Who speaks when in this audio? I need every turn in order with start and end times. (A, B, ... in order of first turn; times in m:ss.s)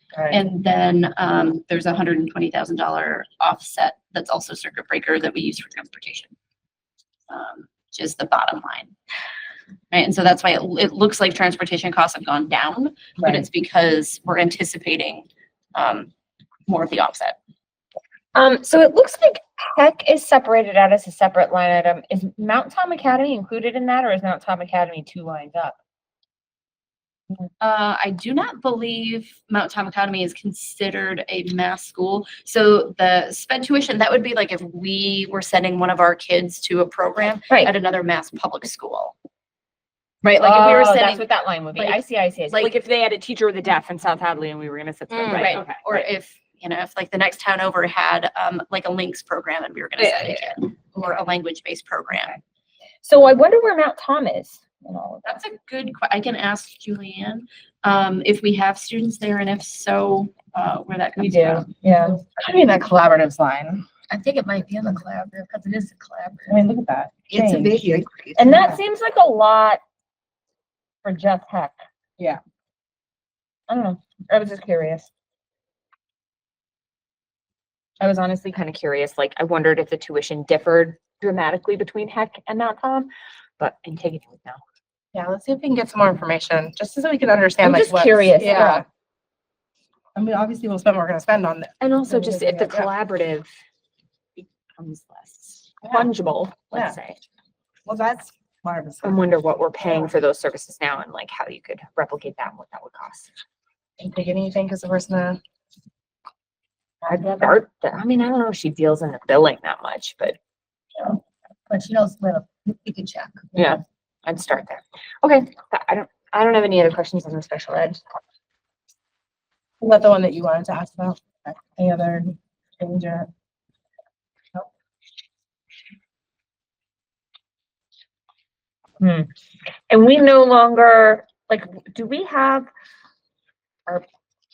0:00.3-0:06.3 A
0:07.3-0:08.9 A
0:09.9-0:16.1 A
0:16.7-0:17.4 A
0:18.3-0:25.8 B
0:27.6-0:39.1 A
0:40.2-0:42.0 A
0:40.4-0:46.0 B
0:45.1-0:45.6 C
0:45.3-0:52.4 A
0:50.0-0:50.4 B
0:53.0-0:55.2 B
0:55.2-1:01.7 A
1:01.2-1:01.7 B
1:01.8-1:03.8 D
1:04.1-1:06.6 C
1:06.5-1:07.8 D
1:07.3-1:08.8 C
1:08.4-1:09.8 B
1:11.0-1:11.8 B
1:13.7-1:15.1 B
1:18.0-1:24.6 B
1:25.1-1:28.8 D
1:27.6-1:28.8 B
1:30.1-1:32.9 D
1:31.8-1:33.5 B
1:34.4-1:37.2 B
1:36.7-1:37.0 D
1:37.8-1:39.2 D
1:39.0-1:43.3 B
1:44.0-1:45.4 D
1:47.0-1:50.4 B
1:51.0-1:53.8 C
1:53.6-1:58.0 B
1:59.8-2:03.3 D
2:09.0-2:09.3 B
2:09.9-2:12.7 B